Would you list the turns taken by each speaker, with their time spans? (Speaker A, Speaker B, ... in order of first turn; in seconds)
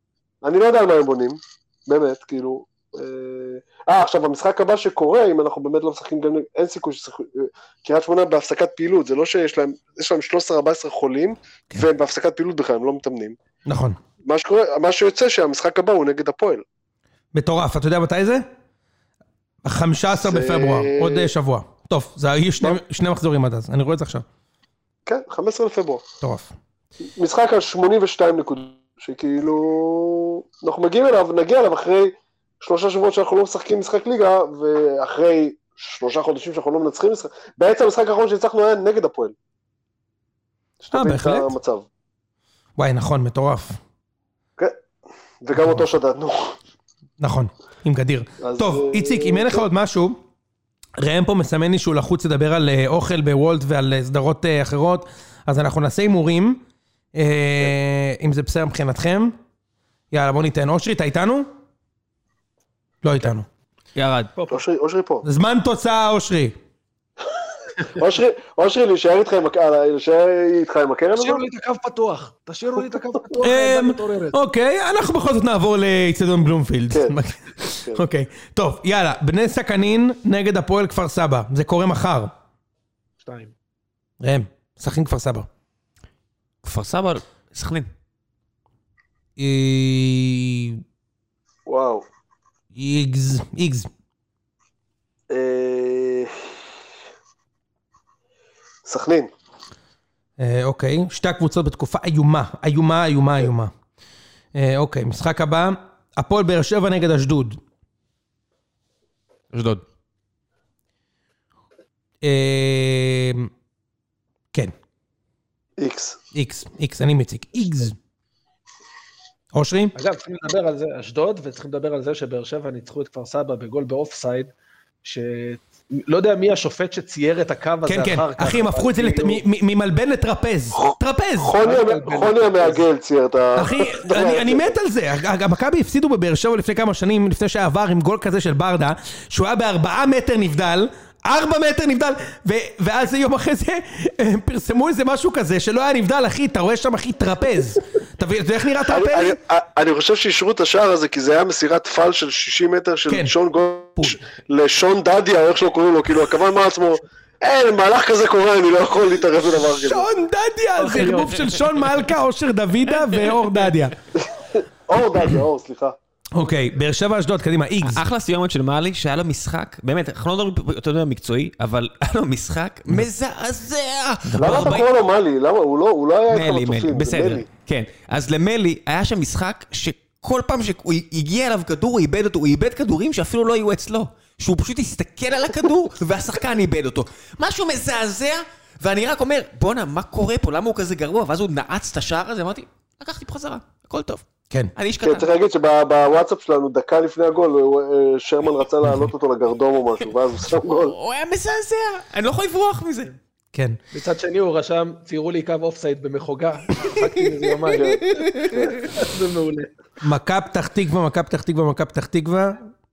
Speaker A: 0.4-13.4, 14.2-16.6, 20.1-21.3, 25.1-26.0, 27.2-39.4, 40.8-41.9, 45.4-46.6, 48.4-49.7, 64.5-65.3, 67.8-71.4, 76.9-77.2, 91.7-92.1, 95.3-96.6, 98.8-99.3, 115.8-116.2, 130.8-134.8, 148.8-160.1, 164.4-166.0, 174.4-177.5, 195.0-200.9, 207.7-208.0
Speaker B: 13.7-14.0, 17.3-18.5, 19.6-24.2, 26.2-26.5, 40.9-41.5, 42.8-43.8, 45.6-45.8, 47.2-50.2, 51.0-56.6, 57.1-59.4, 60.1-61.5, 63.0-63.5, 65.2-66.6, 73.4-82.3, 84.2-85.5, 89.4-90.8, 92.8-93.9, 100.4-103.7, 104.5-107.6, 112.2-113.5, 116.3-118.0, 119.5-119.9, 127.9-131.6, 133.6-149.4, 159.6-163.9, 166.3-168.0, 210.0-212.7
Speaker C: 64.0-64.3, 86.6-87.9, 109.5-109.8, 167.8-174.9, 176.3-194.2, 194.8-195.3, 200.5-203.2, 206.8-208.8
Speaker D: 71.2-74.4, 83.2-83.5, 120.0-124.5, 125.0-129.4, 131.6-132.8, 160.8-161.4, 203.9-209.7